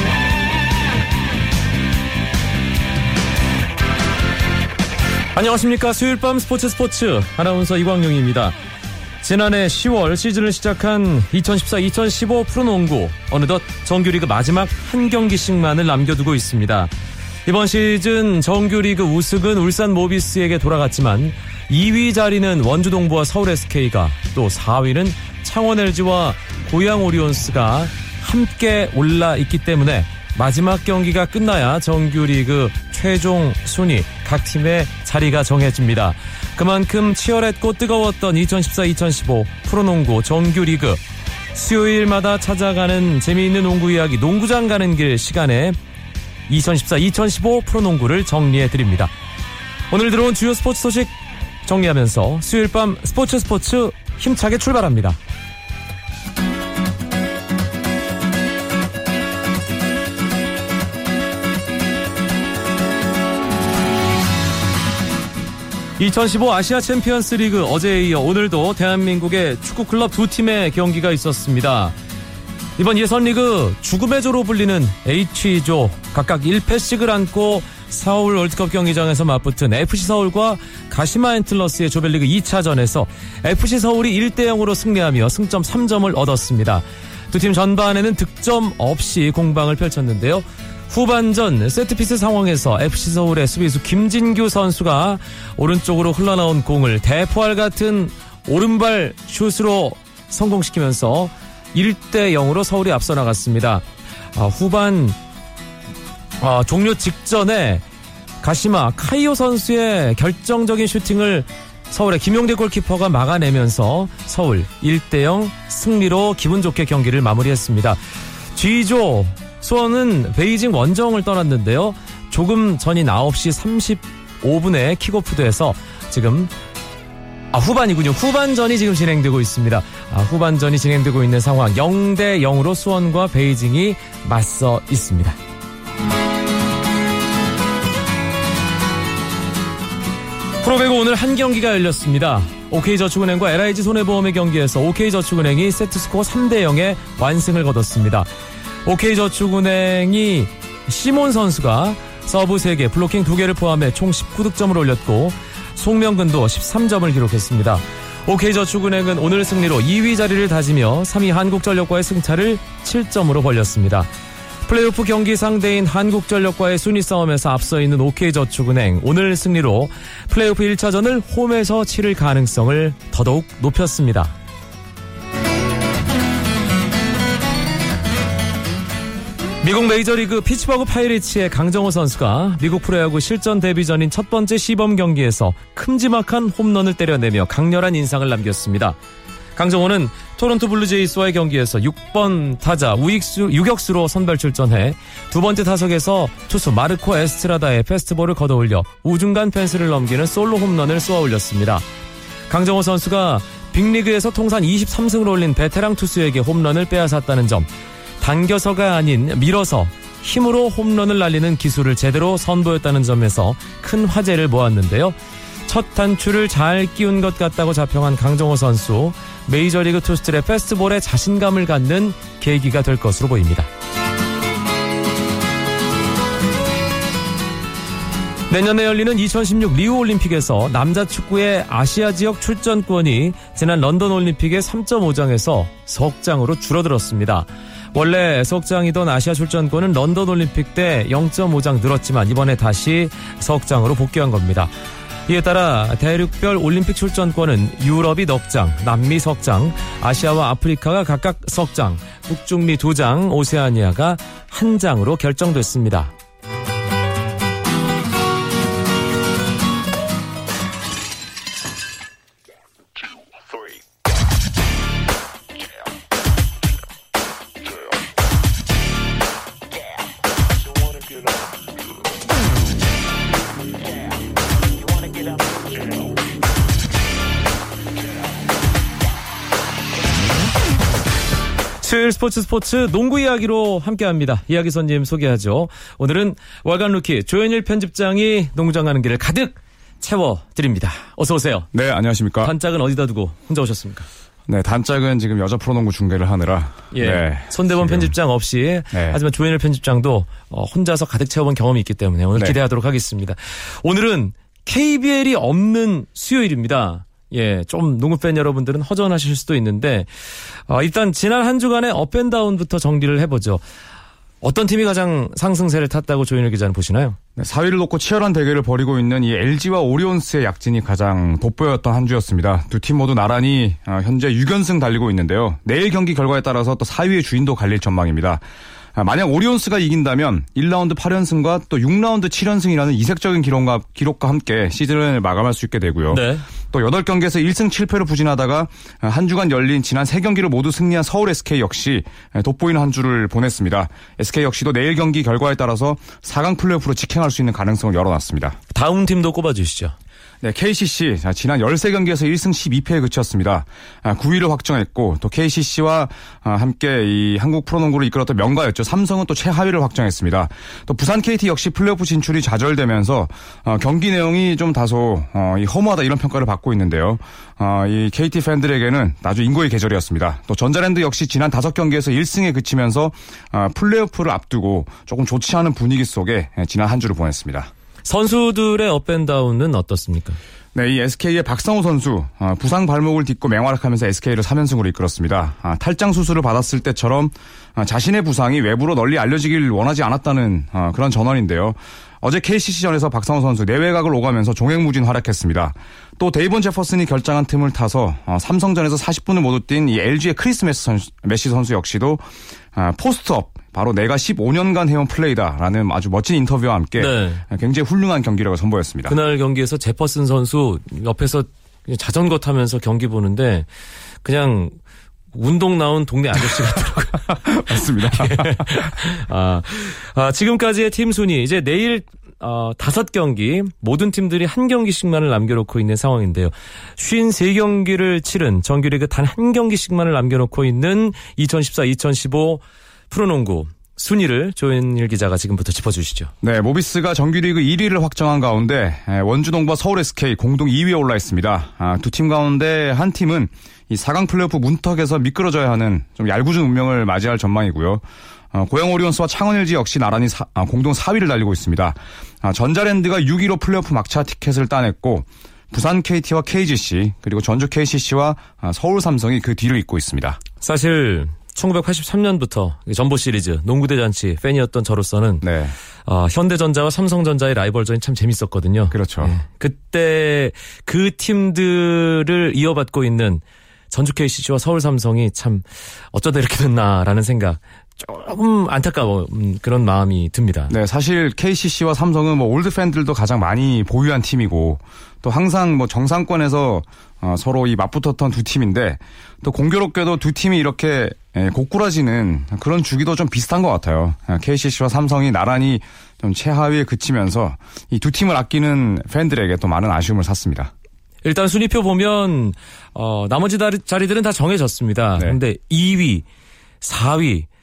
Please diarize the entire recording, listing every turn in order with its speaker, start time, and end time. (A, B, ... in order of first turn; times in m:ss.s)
0:05.3-0:08.5 A
0:09.2-0:16.9 A
0:17.4-0:41.0 A
0:41.5-0:45.8 A
0:46.5-0:49.1 A
0:49.9-0:55.2 A
1:06.0-1:12.0 A
1:12.8-1:43.8 A
1:44.3-1:45.2 A
1:46.4-1:47.8 A
1:48.4-1:58.0 A
1:58.5-2:06.5 A
2:07.5-2:15.4 A
2:20.6-2:28.3 A
2:28.8-2:44.1 A
2:44.6-2:54.3 A
2:59.6-3:09.0 A
3:09.6-3:21.8 A
3:22.5-3:27.7 A
3:28.2-3:35.2 A
3:35.7-3:43.7 A
3:48.5-4:04.7 A
4:05.3-4:16.1 A
4:41.8-4:51.7 A
4:51.7-4:52.5 B
4:52.4-4:54.1 A
4:54.5-4:58.1 B
4:56.9-5:10.1 A
4:58.9-4:59.2 B
5:10.7-5:13.6 A
5:14.4-5:17.2 A
5:17.4-5:28.4 B
5:28.9-5:48.6 B
5:36.1-5:36.4 A
5:48.7-5:49.9 A
5:50.4-6:17.7 B
6:18.0-6:20.4 A
6:20.7-6:49.2 B
6:47.0-6:47.4 A
6:49.1-6:53.7 A
6:54.2-6:54.8 A
6:55.3-6:57.4 A
6:57.3-6:58.9 B
6:58.0-7:16.3 A
7:16.4-7:40.4 B
7:40.6-7:45.4 A
7:45.4-7:45.7 B
7:46.0-8:00.7 A
7:48.9-7:49.3 B
8:00.7-8:20.7 B
8:21.2-8:26.2 A
8:26.8-8:27.5 A